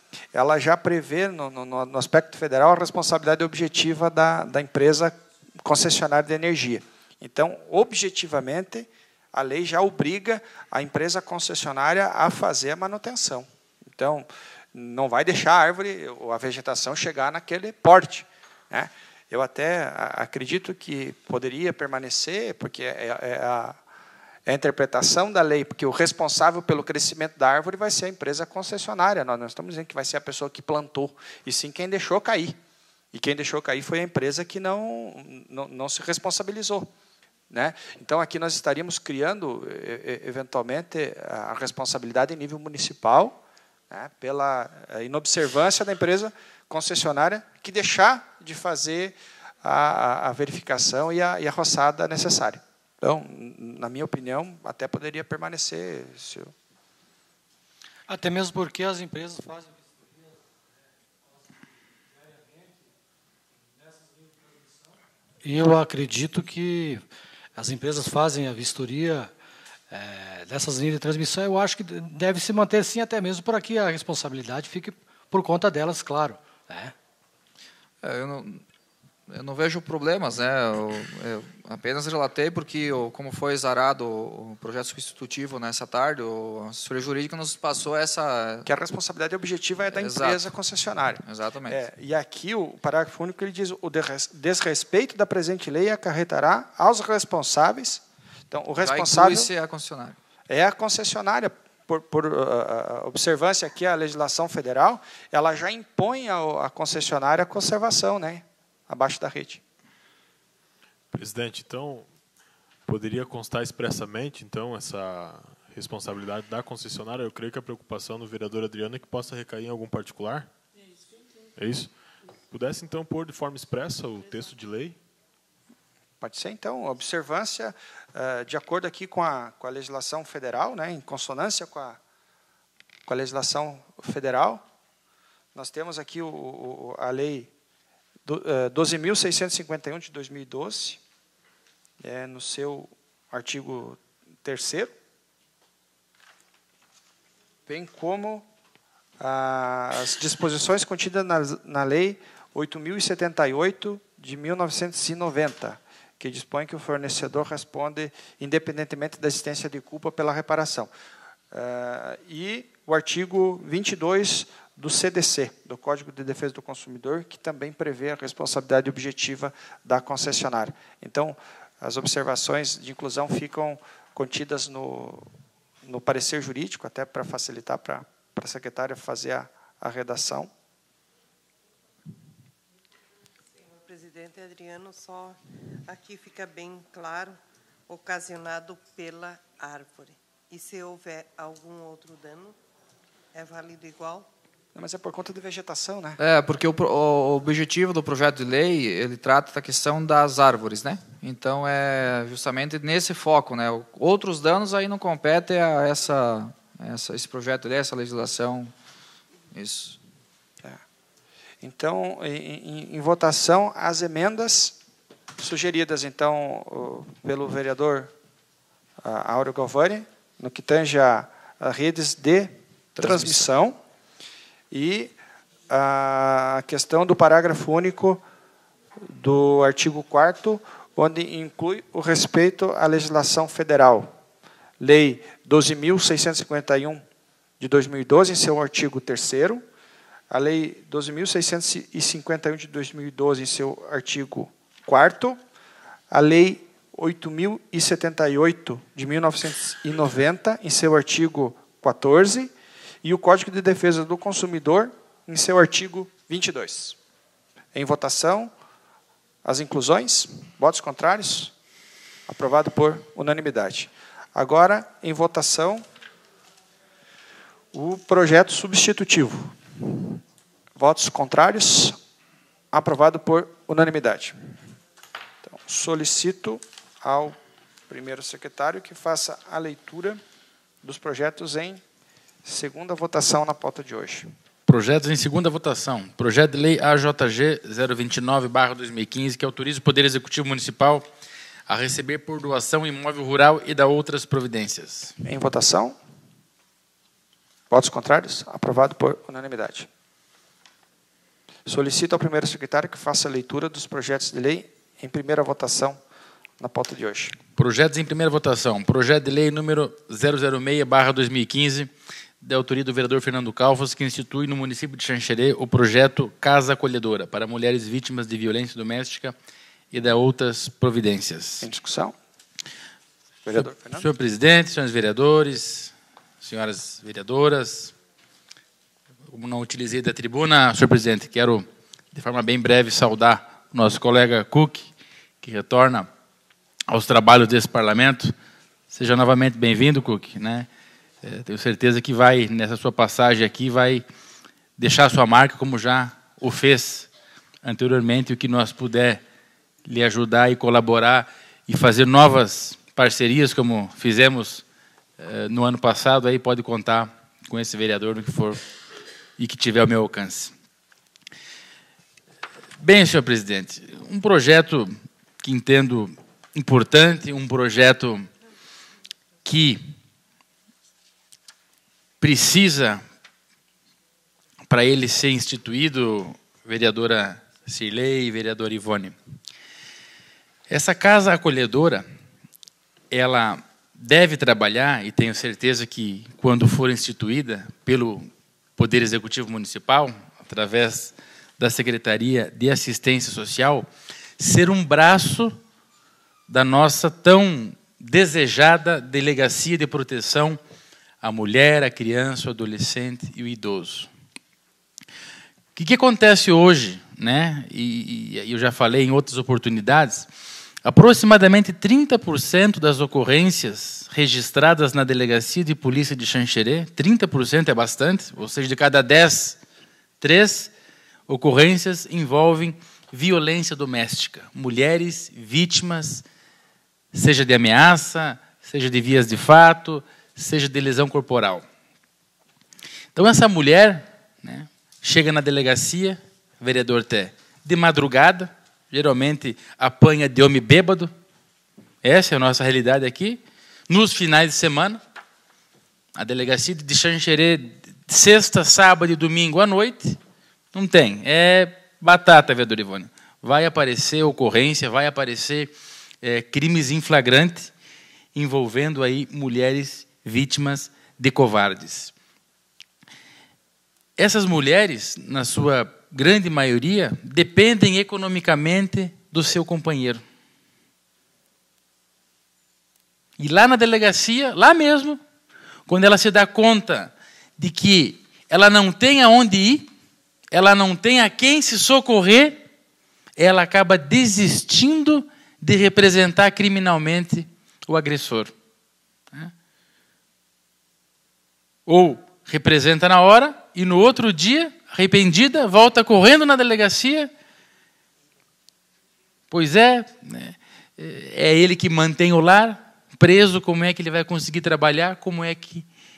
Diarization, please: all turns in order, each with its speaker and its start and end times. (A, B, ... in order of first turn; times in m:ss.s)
0:00.3-0:23.8 A
0:24.4-0:32.6 A
0:33.1-0:36.9 A
0:37.5-0:56.5 A
0:58.1-1:00.1 B
1:02.3-1:02.7 B
1:03.8-1:04.7 B
1:05.4-1:07.0 B
1:07.6-1:09.3 B
1:09.9-1:16.9 B
1:18.0-1:18.6 C
1:19.3-1:28.7 C
1:28.6-1:39.5 A
1:29.9-1:30.4 C
1:31.2-1:31.8 C
1:38.8-1:40.2 C
1:40.5-1:49.6 A
1:51.1-1:52.0 D
1:52.9-2:00.5 D
2:01.6-2:01.9 D
2:02.5-2:05.0 D
2:06.2-2:12.0 A
2:13.0-2:14.6 A
2:15.5-2:17.5 A
2:18.2-2:21.0 A
2:22.0-2:24.9 A
2:27.7-2:28.5 A
2:29.2-2:40.9 A
2:41.5-2:55.3 A
2:55.8-3:00.5 A
3:03.6-3:07.4 E
3:07.9-3:12.5 E
3:13.3-3:14.3 E
3:14.7-3:16.2 A
3:16.2-3:28.7 C
3:29.5-3:30.0 C
3:31.6-3:34.8 A
3:35.4-3:38.1 A
3:39.0-3:43.8 A
3:43.0-3:43.4 F
3:44.7-3:45.1 A
3:45.7-3:48.2 A
3:49.0-3:54.1 A
3:54.8-3:57.0 A
3:57.6-3:59.6 A
4:00.3-4:05.4 A
4:06.1-4:17.0 A
4:17.7-4:18.5 A
4:19.4-4:21.5 A
4:22.3-4:25.8 A
4:27.7-4:30.2 A
4:30.8-4:32.0 A
4:32.7-4:34.6 A
4:35.4-4:37.4 A
4:37.9-4:40.2 A
4:40.8-4:41.8 A
4:42.4-4:44.3 A
4:44.6-4:51.0 F
4:51.7-4:55.1 F
4:55.2-4:56.0 A
4:57.7-4:59.9 A
5:01.6-5:06.0 A
5:06.6-5:07.4 A
5:07.6-5:19.3 F
5:19.9-5:21.7 F
5:21.6-5:22.2 A
5:23.4-5:24.0 A
5:23.5-5:27.9 F
5:29.3-5:34.9 F
5:35.4-5:36.1 F
5:36.9-5:38.3 F
5:38.9-5:40.7 F
5:41.2-5:44.0 F
5:44.8-5:47.1 F
5:47.6-5:49.2 F
5:49.8-5:54.6 F
5:55.2-5:58.6 F
5:59.4-6:00.5 F
6:02.8-6:08.3 F
6:09.4-6:09.9 F
6:12.2-6:13.0 F
6:14.7-6:19.1 F
6:20.7-6:22.0 F
6:23.1-6:33.9 F
6:34.4-6:35.6 F
6:36.5-6:40.6 F
6:41.2-6:44.1 F
6:45.8-6:50.3 F
6:50.8-6:59.6 F
7:00.2-7:00.7 F
7:01.3-7:06.2 F
7:07.1-7:11.6 F
7:13.1-7:21.1 F
7:22.0-7:25.0 F
7:26.1-7:30.2 F
7:30.7-7:37.7 F
7:38.3-7:42.1 F
7:44.2-7:50.2 F
7:53.4-7:55.2 F
7:55.9-7:59.9 F
8:00.5-8:02.6 F
8:03.4-8:08.5 F
8:11.8-8:17.3 F
8:19.5-8:25.8 F